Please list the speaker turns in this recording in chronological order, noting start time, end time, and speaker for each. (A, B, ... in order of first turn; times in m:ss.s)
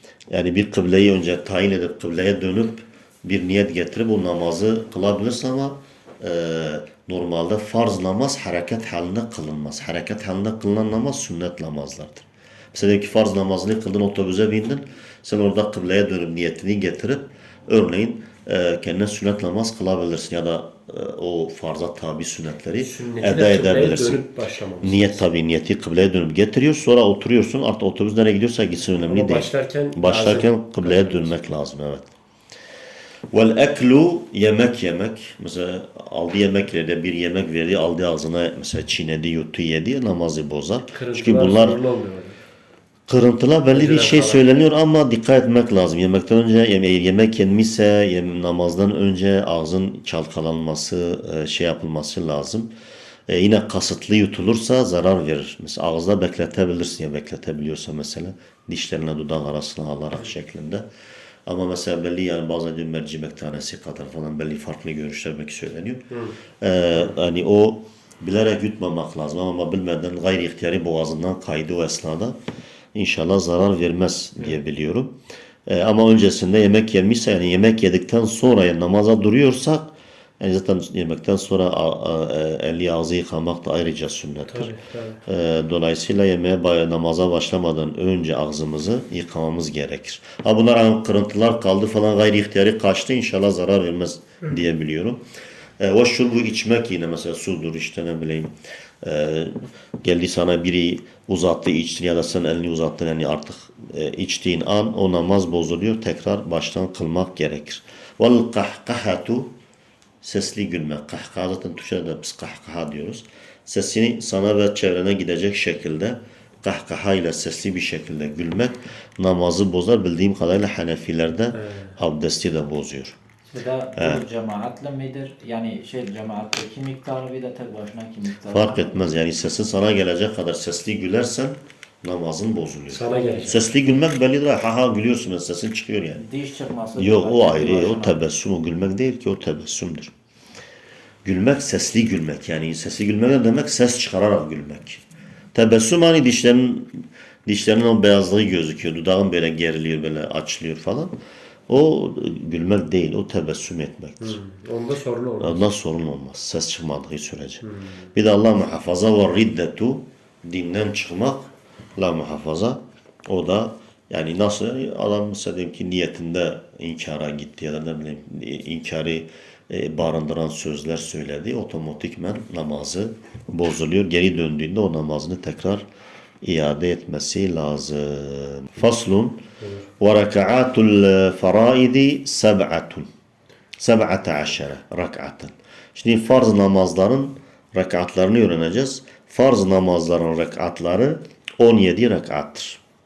0:00.3-0:24.2 A
0:22.8-0:25.2 B
0:24.8-0:32.1 A
0:29.0-0:31.4 B
0:33.3-0:41.8 A
0:40.9-0:42.4 B
0:43.1-0:52.7 A
0:43.7-0:44.4 B
0:53.3-1:00.8 A
1:01.4-1:06.1 A
1:06.1-1:06.4 B
1:06.6-1:12.4 A
1:12.9-1:15.1 A
1:15.7-1:24.7 A
1:24.4-1:25.2 B
1:25.2-1:35.2 A
1:35.8-1:49.5 A
1:50.2-2:03.2 A
2:01.5-2:01.9 B
2:03.5-2:09.0 C
2:04.0-2:04.2 A
2:08.5-2:16.2 A
2:12.9-2:13.6 B
2:16.1-2:18.2 C
2:17.0-2:20.1 A
2:21.2-2:25.0 A
2:25.5-2:31.1 A
2:31.7-2:34.4 A
2:34.2-2:35.6 B
2:35.4-2:37.6 A
2:37.6-2:38.0 B
2:38.1-2:55.8 A
2:56.4-2:59.4 A
2:59.6-2:59.9 B
3:00.0-3:03.1 A
3:03.8-3:12.8 A